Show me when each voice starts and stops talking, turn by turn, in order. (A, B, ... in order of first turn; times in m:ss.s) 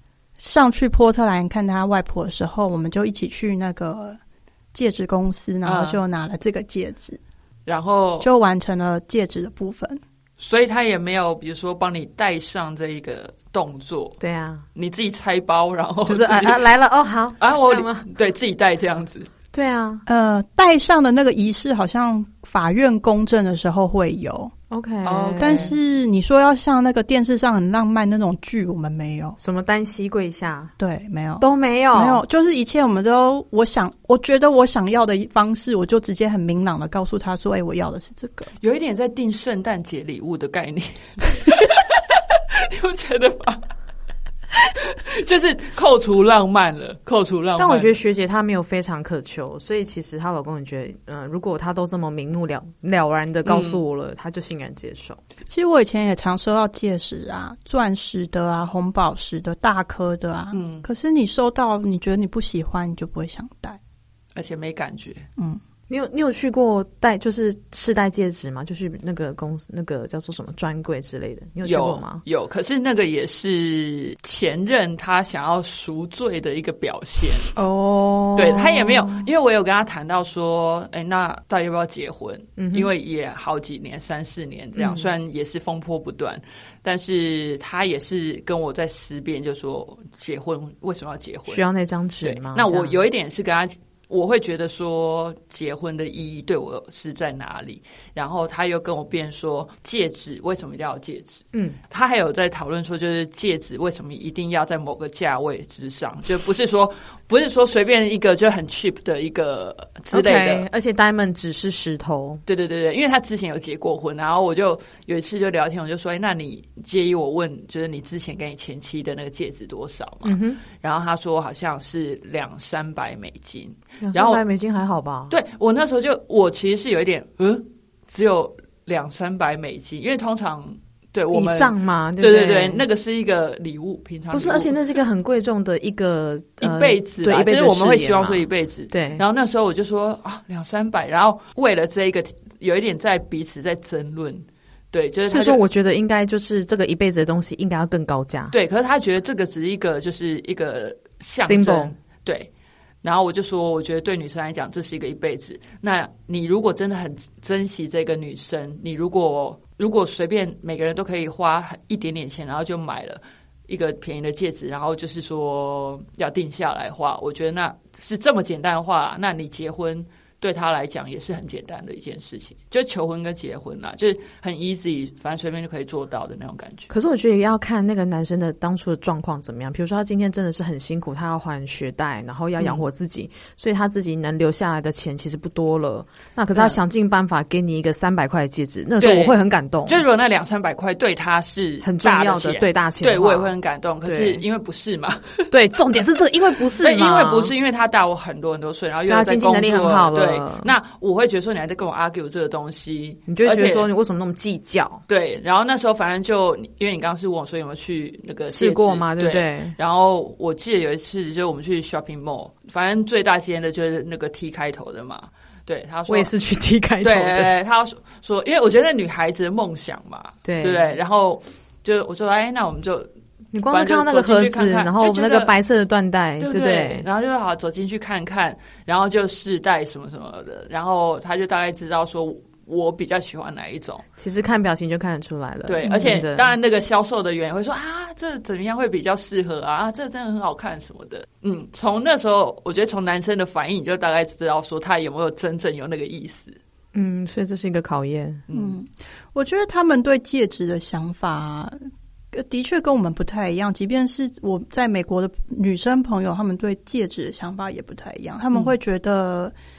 0:00.4-0:04.2 A
0:04.7-0:07.2 A
0:05.6-0:06.0 B
0:07.7-0:08.3 B
0:08.2-0:10.0 A
0:10.4-0:14.2 B
0:14.2-0:14.6 C
0:14.8-0:16.7 B
0:16.1-0:18.1 C
0:17.4-0:19.3 B
0:19.5-0:20.0 C
0:20.1-0:24.5 A
0:24.7-0:25.7 C
0:25.0-0:25.8 B
0:25.4-0:29.4 A
0:29.4-0:30.7 C
0:30.8-0:38.5 A
0:31.4-0:32.2 C
0:38.6-0:43.6 B
0:44.5-0:48.0 B
0:47.6-0:55.2 C
0:53.5-0:53.8 B
0:55.5-1:03.8 A
1:00.5-1:00.9 B
1:04.4-1:05.3 B
1:05.9-1:12.2 C
1:11.6-1:17.6 B
1:17.6-1:19.3 C
1:18.4-1:31.6 B
1:22.6-1:22.9 C
1:24.8-1:25.1 C
1:31.5-1:33.0 C
1:32.2-1:50.7 B
1:41.5-1:41.8 C
1:50.1-1:52.4 C
1:52.5-2:04.4 B
2:00.2-2:00.6 C
2:04.0-2:05.3 C
2:05.3-2:14.8 B
2:11.3-2:12.8 C
2:14.3-2:19.2 C
2:16.6-2:25.6 B
2:25.3-2:28.5 C
2:28.5-2:32.5 B
2:31.4-2:31.9 C
2:33.0-2:56.9 B
2:56.9-3:10.0 C
3:02.6-3:02.8 B
3:09.0-3:09.4 B
3:09.9-3:15.5 B
3:11.8-3:14.4 C
3:15.5-3:17.5 C
3:16.7-3:23.9 B
3:19.0-3:20.7 C
3:23.3-3:25.0 C
3:25.1-3:36.3 B
3:28.5-3:29.8 C
3:36.1-3:37.5 C
3:37.0-3:43.1 B
3:40.4-3:40.9 C
3:43.5-3:47.1 C
3:43.7-3:45.5 B
3:46.4-3:54.0 B
3:54.2-3:56.5 C
3:55.7-4:06.6 B
4:06.9-4:08.4 C
4:08.5-4:08.8 B
4:08.5-4:11.8 A
4:12.3-4:19.5 A